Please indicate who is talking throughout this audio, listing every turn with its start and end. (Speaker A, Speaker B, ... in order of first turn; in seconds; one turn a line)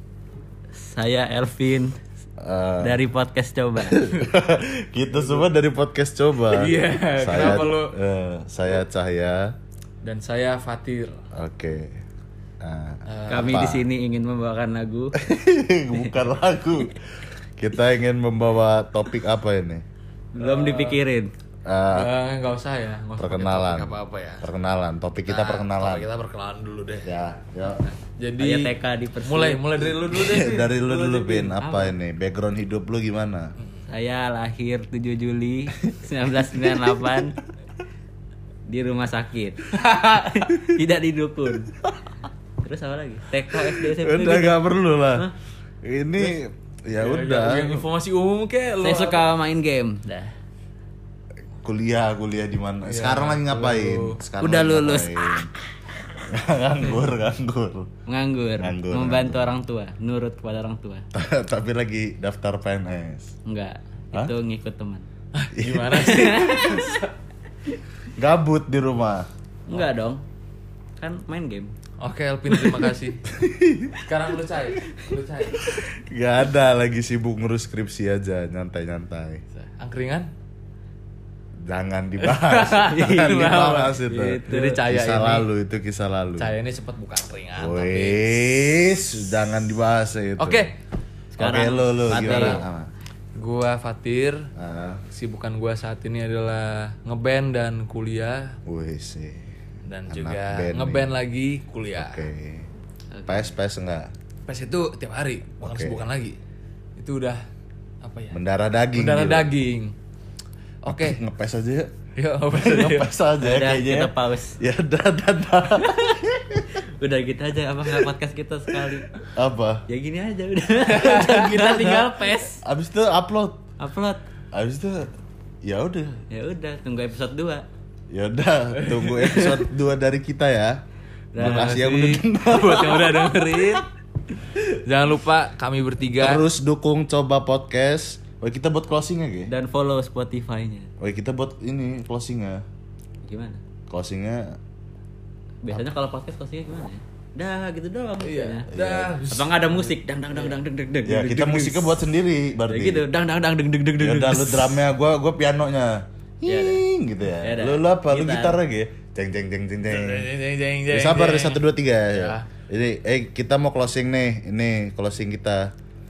Speaker A: 0.7-2.0
Speaker B: 2.4-3.0
Speaker A: 2.8-4.0
Speaker B: 3.8-9.5
Speaker C: 5.1-5.5
Speaker C: 6.5-8.0
Speaker C: 10.0-11.2
Speaker B: 11.3-12.0
Speaker B: 12.6-13.9
Speaker C: 13.1-13.7
Speaker A: 13.3-15.2
Speaker B: 15.2-17.0
Speaker B: 17.6-19.8
Speaker A: 20.4-21.3
Speaker C: 20.4-21.0
Speaker B: 21.7-22.1
Speaker C: 21.9-24.5
Speaker B: 23.2-26.1
Speaker C: 25.2-27.2
Speaker B: 27.1-27.9
Speaker C: 27.9-28.7
Speaker A: 28.4-29.6
Speaker C: 29.2-31.6
Speaker B: 30.1-33.5
Speaker A: 31.6-31.9
Speaker A: 33.9-37.4
Speaker A: 38.7-41.7
Speaker A: 42.6-45.3
Speaker B: 43.7-45.3
Speaker B: 45.8-47.9
Speaker C: 47.0-49.3
Speaker A: 48.8-50.3
Speaker B: 51.6-55.5
Speaker C: 52.9-54.2
Speaker A: 54.4-55.5
Speaker B: 56.1-57.9
Speaker A: 58.1-61.1
Speaker B: 58.6-59.5
Speaker B: 61.1-63.3
Speaker A: 63.5-65.1
Speaker C: 65.3-67.1
Speaker B: 65.5-66.4
Speaker A: 66.0-67.0
Speaker B: 68.2-69.3
Speaker A: 69.7-70.2
Speaker A: 71.0-71.8
Speaker C: 72.0-73.2
Speaker B: 73.3-74.0
Speaker C: 74.0-75.7
Speaker B: 75.6-79.4
Speaker C: 79.5-80.3
Speaker B: 81.7-86.5
Speaker C: 82.2-85.5
Speaker A: 82.8-84.8
Speaker C: 86.4-88.4
Speaker B: 87.6-90.7
Speaker C: 90.4-90.8
Speaker A: 91.4-92.7
Speaker B: 91.4-92.9
Speaker C: 92.2-92.6
Speaker C: 93.4-94.5
Speaker B: 94.6-95.0
Speaker C: 95.1-98.6
Speaker B: 98.7-99.6
Speaker C: 99.8-102.3
Speaker B: 100.1-101.2
Speaker B: 102.0-102.7
Speaker A: 103.1-103.5
Speaker B: 103.3-104.1
Speaker C: 104.5-106.4
Speaker B: 105.6-106.0
Speaker C: 107.0-107.5
Speaker C: 108.0-108.4
Speaker B: 108.3-109.5
Speaker C: 108.9-110.0
Speaker C: 110.8-111.2
Speaker B: 110.9-112.0
Speaker C: 112.2-113.1
Speaker B: 112.5-116.7
Speaker A: 113.4-114.6
Speaker A: 116.7-119.1
Speaker B: 118.8-119.8
Speaker A: 119.9-122.6
Speaker C: 121.0-121.6
Speaker B: 121.2-123.6
Speaker A: 123.8-124.2
Speaker B: 124.5-125.1
Speaker B: 125.6-126.2
Speaker A: 126.3-127.7
Speaker B: 128.1-130.8
Speaker C: 128.9-129.6
Speaker A: 131.3-131.8
Speaker C: 131.3-133.9
Speaker B: 131.4-133.7
Speaker C: 134.6-136.4
Speaker B: 136.2-139.5
Speaker A: 139.5-140.9
Speaker B: 141.0-142.6
Speaker A: 143.2-143.6
Speaker B: 143.9-144.6
Speaker A: 145.6-148.7
Speaker C: 148.2-150.6
Speaker B: 148.7-149.2
Speaker A: 149.3-151.9
Speaker B: 151.1-153.1
Speaker A: 152.7-154.8
Speaker B: 154.0-160.3
Speaker A: 156.5-156.8
Speaker A: 157.4-158.6
Speaker C: 159.9-162.4
Speaker B: 160.9-165.7